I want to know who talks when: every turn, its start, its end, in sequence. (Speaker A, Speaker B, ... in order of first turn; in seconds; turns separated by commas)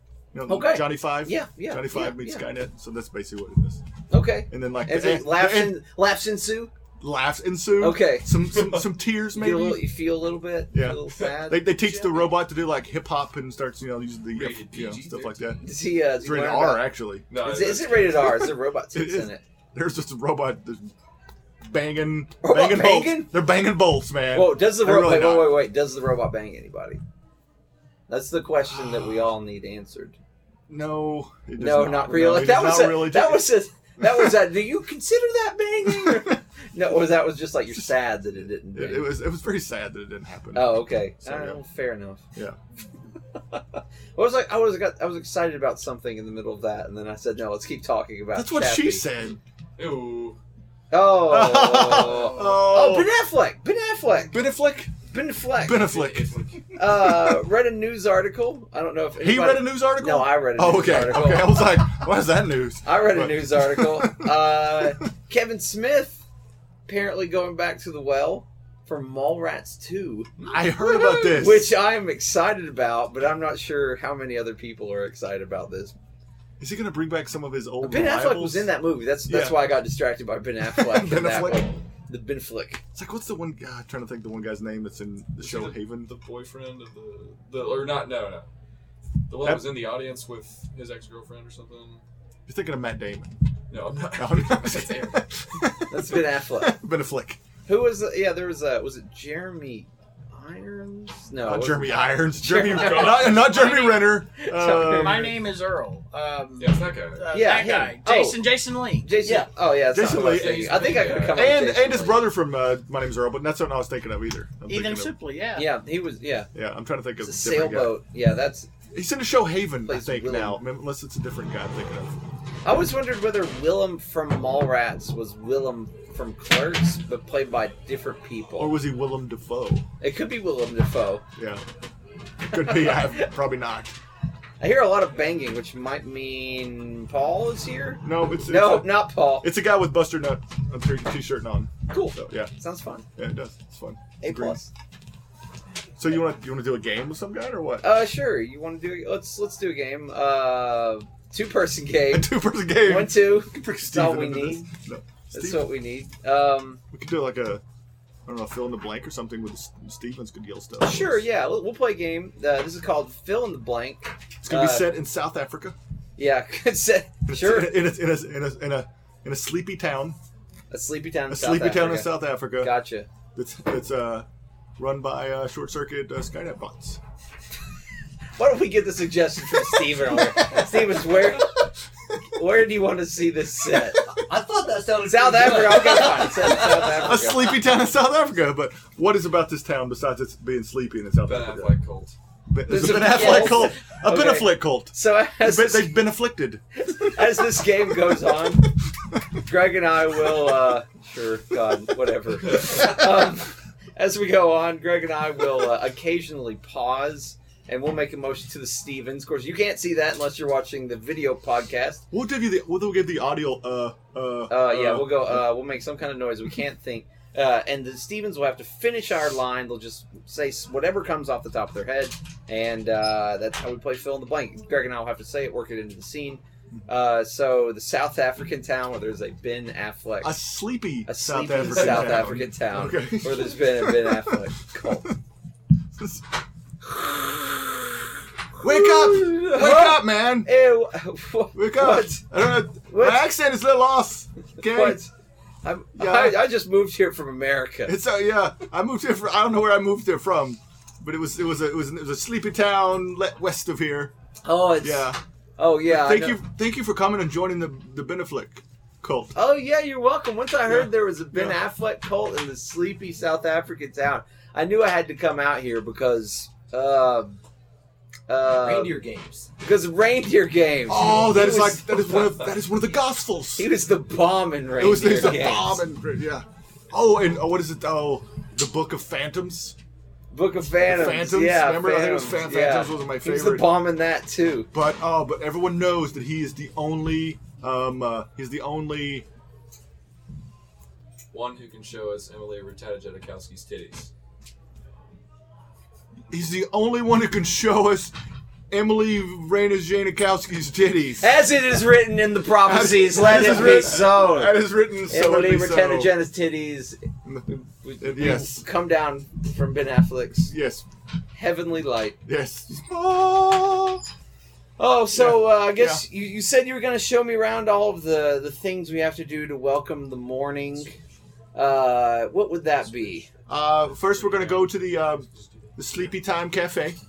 Speaker A: 0.3-3.8, Speaker B: 0.5-2.5, Speaker B: 4.1-6.7, Speaker A: 4.5-5.8, Speaker A: 7.0-9.9, Speaker B: 7.8-8.5, Speaker B: 9.3-12.3, Speaker A: 10.7-15.6, Speaker C: 14.3-15.6, Speaker B: 15.6-19.4, Speaker A: 16.2-17.3, Speaker C: 17.3-18.3, Speaker A: 18.4-20.9, Speaker A: 21.6-25.6, Speaker B: 22.4-23.3, Speaker B: 24.3-27.0, Speaker B: 28.1-30.2, Speaker A: 28.7-29.2, Speaker A: 30.7-34.4, Speaker B: 31.6-39.1, Speaker A: 35.8-36.4, Speaker A: 38.7-41.6, Speaker B: 40.5-42.2, Speaker B: 43.4-49.1, Speaker A: 48.3-49.4, Speaker C: 49.8-50.4, Speaker B: 50.9-54.4, Speaker A: 51.2-53.1, Speaker A: 54.3-54.9, Speaker B: 55.1-55.9, Speaker A: 55.5-57.4, Speaker C: 55.7-56.7, Speaker B: 56.8-61.9, Speaker A: 59.2-64.9, Speaker B: 62.8-66.2, Speaker B: 66.8-76.0, Speaker A: 70.5-71.8, Speaker A: 76.6-78.7, Speaker B: 77.8-82.8, Speaker A: 79.2-79.7, Speaker A: 80.6-81.7, Speaker A: 82.9-86.1, Speaker C: 85.4-88.5, Speaker C: 89.3-92.0, Speaker A: 89.4-89.8, Speaker A: 92.5-93.3, Speaker C: 93.7-95.4, Speaker A: 94.1-97.4, Speaker B: 95.9-96.8, Speaker B: 97.7-105.2, Speaker A: 101.4-105.4, Speaker C: 102.7-103.2, Speaker D: 103.6-104.0, Speaker D: 104.8-109.2, Speaker C: 106.6-107.3, Speaker B: 107.3-108.4, Speaker B: 109.0-112.3, Speaker E: 109.2-109.5, Speaker A: 109.9-115.1, Speaker C: 110.1-111.5, Speaker D: 114.7-115.7, Speaker B: 115.5-116.5, Speaker A: 116.5-118.0, Speaker B: 117.2-118.7, Speaker A: 118.9-122.2, Speaker B: 119.8-120.6, Speaker B: 122.6-128.8, Speaker A: 128.6-129.8, Speaker B: 130.0-131.2, Speaker A: 131.4-131.6, Speaker A: 132.4-133.9, Speaker B: 132.5-133.3, Speaker B: 134.6-139.5, Speaker A: 138.0-142.5, Speaker B: 141.9-143.1, Speaker A: 143.2-144.6, Speaker B: 144.2-144.7, Speaker A: 146.0-147.9, Speaker B: 147.8-154.7, Speaker A: 152.1-155.7, Speaker B: 155.3-156.8, Speaker A: 156.9-157.6, Speaker A: 158.2-161.2, Speaker B: 160.8-164.9, Speaker A: 164.4-165.8, Speaker B: 166.2-167.8, Speaker A: 167.2-170.2, Speaker B: 170.7-173.1, Speaker A: 171.3-172.7, Speaker A: 173.3-174.2, Speaker A: 174.8-177.0, Speaker B: 178.4-181.6, Speaker B: 182.3-184.1, Speaker E: 184.0-187.1, Speaker B: 185.0-187.6, Speaker A: 186.8-191.7, Speaker C: 191.2-192.2, Speaker A: 192.5-196.6, Speaker B: 192.7-196.0, Speaker B: 196.8-198.7, Speaker B: 199.4-212.0, Speaker A: 212.1-215.4, Speaker B: 214.5-230.4, Speaker A: 230.2-235.2, Speaker B: 231.1-235.1, Speaker A: 235.9-236.3, Speaker B: 237.0-237.9, Speaker A: 238.6-240.5, Speaker B: 238.6-242.2, Speaker A: 241.5-245.0, Speaker B: 242.8-243.3, Speaker B: 244.6-245.1, Speaker B: 245.6-247.9, Speaker A: 245.9-246.4, Speaker A: 247.8-254.1, Speaker B: 254.4-256.4, Speaker A: 254.8-255.2, Speaker A: 255.8-259.3, Speaker B: 259.3-267.4, Speaker A: 260.7-261.6, Speaker B: 268.3-269.0, Speaker E: 268.5-269.5, Speaker B: 269.6-272.4, Speaker A: 270.9-273.7, Speaker B: 273.6-275.8, Speaker A: 274.8-279.8, Speaker B: 280.3-284.7, Speaker A: 280.8-283.7, Speaker A: 284.7-289.2, Speaker C: 291.3-294.1, Speaker A: 296.3-298.1, Speaker A: 298.7-301.3, Speaker B: 301.2-310.5, Speaker A: 302.6-306.1, Speaker A: 308.0-308.6, Speaker A: 310.5-310.9, Speaker B: 311.3-312.2, Speaker A: 312.2-314.0, Speaker B: 314.8-320.9, Speaker A: 315.1-316.0, Speaker B: 321.5-323.3, Speaker A: 323.5-327.0, Speaker C: 324.1-324.8, Speaker C: 325.3-326.0